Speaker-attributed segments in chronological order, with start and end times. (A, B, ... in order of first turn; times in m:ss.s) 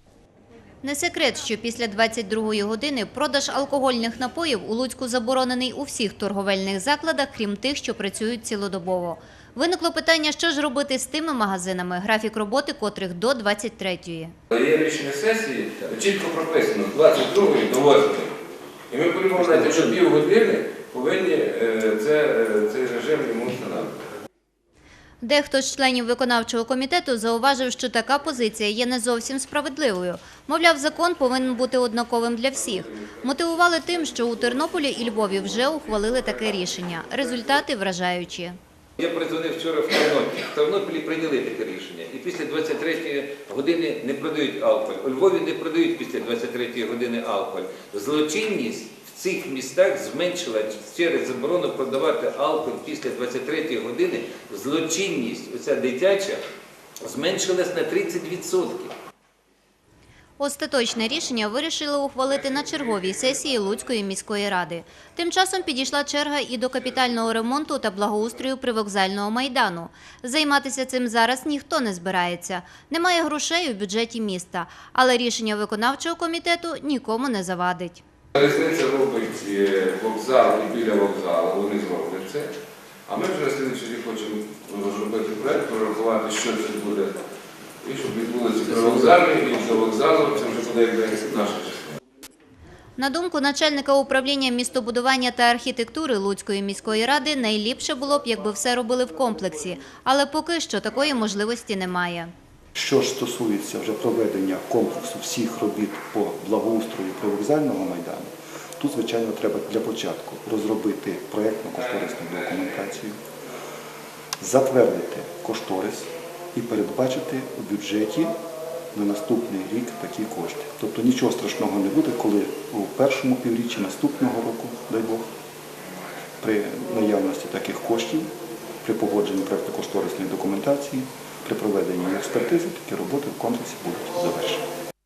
0:00.8-0:14.3 A
0:14.5-0:18.3 B
0:18.9-0:24.1 B
0:25.2-0:38.6 A
0:39.0-0:56.4 C
0:57.0-0:58.9 C
1:00.4-1:18.0 A
1:18.4-1:22.5 B
1:23.1-1:27.1 B
1:27.8-1:32.0 B
1:33.0-1:42.3 A
1:42.7-1:53.2 D
1:54.4-1:58.3 D
1:58.9-2:05.2 D
2:06.4-2:08.3 D
2:08.8-2:14.6 D